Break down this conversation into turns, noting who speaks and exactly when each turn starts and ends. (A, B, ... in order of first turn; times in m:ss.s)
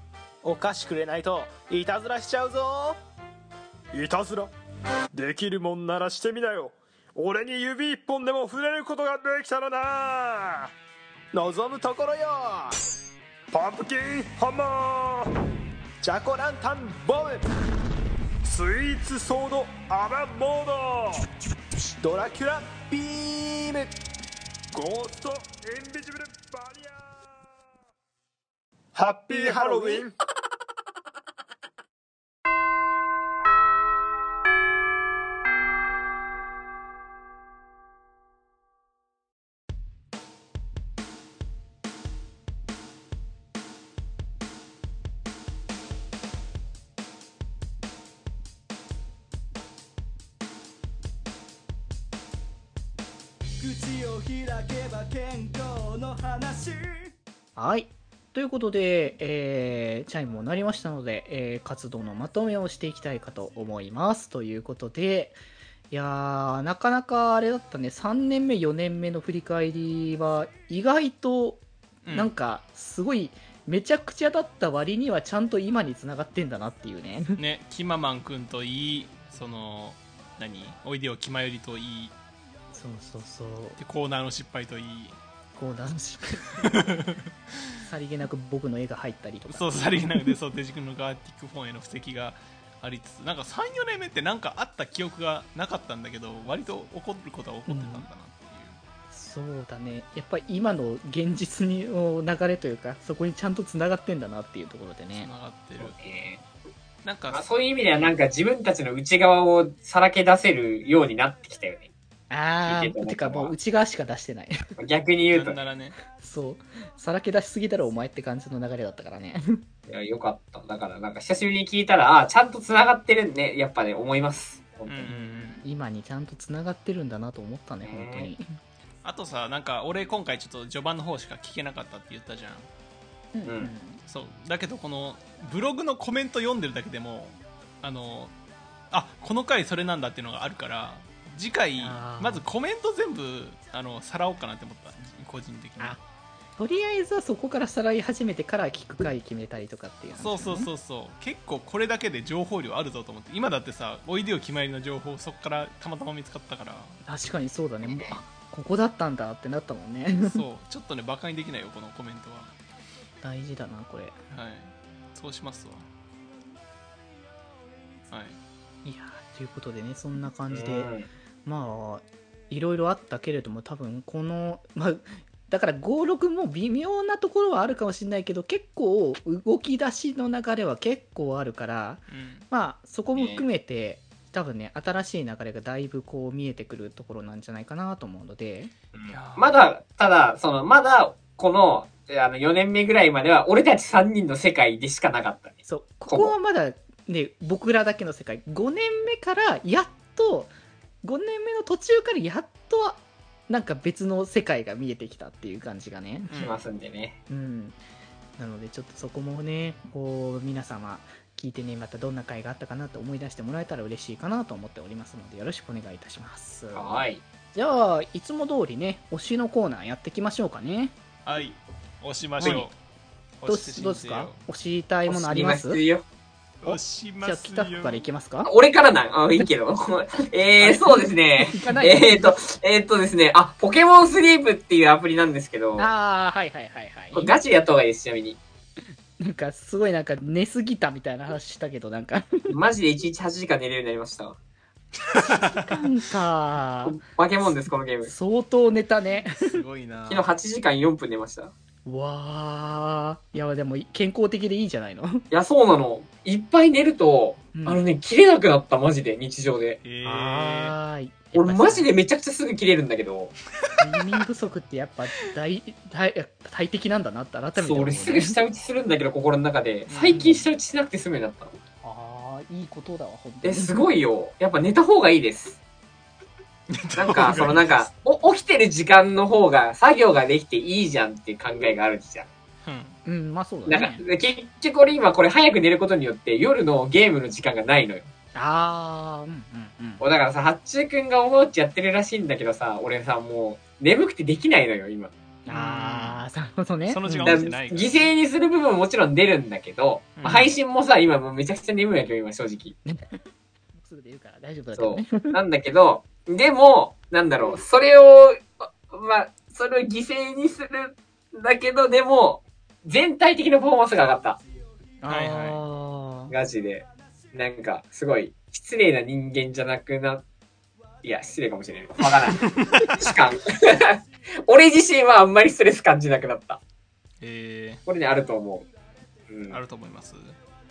0:00.4-0:03.0 A
0:03.9-0:04.5 B
0:05.1-0:10.7 B
0:11.3-0:12.8 B
0:13.5-0:15.3 B
0:16.0-0:17.4 B
0:18.4-0:21.2 B
0:22.0-0:23.7 A
0:22.1-0:22.9 B
0:24.7-0:27.0 B
0:28.9-0:30.1 B
0:29.4-0:30.0 C
0:54.3-0:56.7 D
0:57.6-1:05.4 E
1:05.9-1:17.4 E
1:12.0-1:12.3 C
1:17.4-1:22.1 C
1:22.7-1:23.8 E
1:23.8-1:25.2 C
1:25.5-1:26.9 E
1:26.9-1:27.3 C
1:27.8-1:30.3 E
1:29.5-1:38.8 C
1:37.7-1:38.1 E
1:39.1-1:45.3 E
1:45.2-1:45.9 C
1:45.8-1:46.4 F
1:47.0-1:48.2 C
1:47.3-1:51.9 F
1:52.3-1:54.5 E
1:52.6-1:53.5 F
1:54.8-1:55.6 F
1:55.3-1:56.0 C
1:56.2-1:59.6 E
1:59.9-2:05.0 F
2:04.9-2:05.6 C
2:05.1-2:08.4 E
2:07.8-2:08.3 F
2:09.0-2:12.7 C
2:13.3-2:14.0 E
2:14.0-2:18.3 C
2:18.9-2:26.0 C
2:21.8-2:22.4 E
2:26.6-2:30.7 E
2:30.2-2:37.0 C
2:37.0-2:40.4 E
2:37.8-2:38.2 F
2:40.2-2:42.5 C
2:43.2-2:44.2 E
2:44.3-2:45.9 C
2:48.1-2:48.4 C
2:48.8-2:50.9 E
2:50.5-2:51.1 F
2:51.4-3:08.7 E
3:02.1-3:02.4 C
3:03.2-3:03.4 F
3:08.9-3:15.6 F
3:09.1-3:09.5 C
3:15.7-3:20.5 E
3:16.1-3:16.3 F
3:21.0-3:26.4 E
3:26.3-3:26.6 C
3:26.4-3:27.2 F
3:27.3-3:27.8 E
3:28.4-3:40.9 E
3:36.7-3:37.2 F
3:41.2-3:42.8 C
3:42.4-3:42.7 E
3:43.4-3:44.4 C
3:43.4-3:45.8 E
3:45.1-3:46.0 F
3:46.6-3:48.0 C
3:46.6-3:48.5 E
3:48.4-3:55.9 F
3:50.6-3:52.4 E
3:55.8-3:57.4 E
3:57.1-3:58.4 F
3:59.2-4:02.4 E
4:02.5-4:04.4 F
4:05.2-4:07.0 E
4:06.8-4:08.1 F
4:08.0-4:09.4 E
4:09.3-4:10.3 C
4:10.1-4:11.5 F
4:11.8-4:15.2 E
4:15.3-4:19.8 F
4:17.5-4:17.8 E
4:19.8-4:20.8 C
4:20.0-4:21.9 E
4:21.3-4:23.3 F
4:23.8-4:28.4 E
4:27.6-4:31.5 F
4:29.9-4:30.3 C
4:30.1-4:30.4 E
4:31.8-4:33.8 E
4:33.4-4:35.6 F
4:36.7-4:37.9 C
4:36.9-4:42.3 F
4:42.6-4:43.0 C
4:43.0-4:44.0 E
4:43.7-4:48.1 F
4:48.3-4:50.0 E
4:50.0-4:55.1 F
4:55.5-4:57.6 E
4:55.5-4:56.2 C
4:56.9-4:58.1 C
4:57.2-5:02.8 F
5:00.2-5:00.5 C
5:02.8-5:03.2 E
5:03.7-5:05.4 E
5:04.8-5:14.4 F
5:15.0-5:16.3 E
5:15.0-5:15.6 C
5:16.3-5:20.2 F
5:21.0-5:22.4 F
5:22.3-5:22.9 C
5:23.0-5:26.6 F
5:27.2-5:27.8 C
5:27.8-5:28.7 F
5:29.3-5:29.6 F
5:29.5-5:30.4 C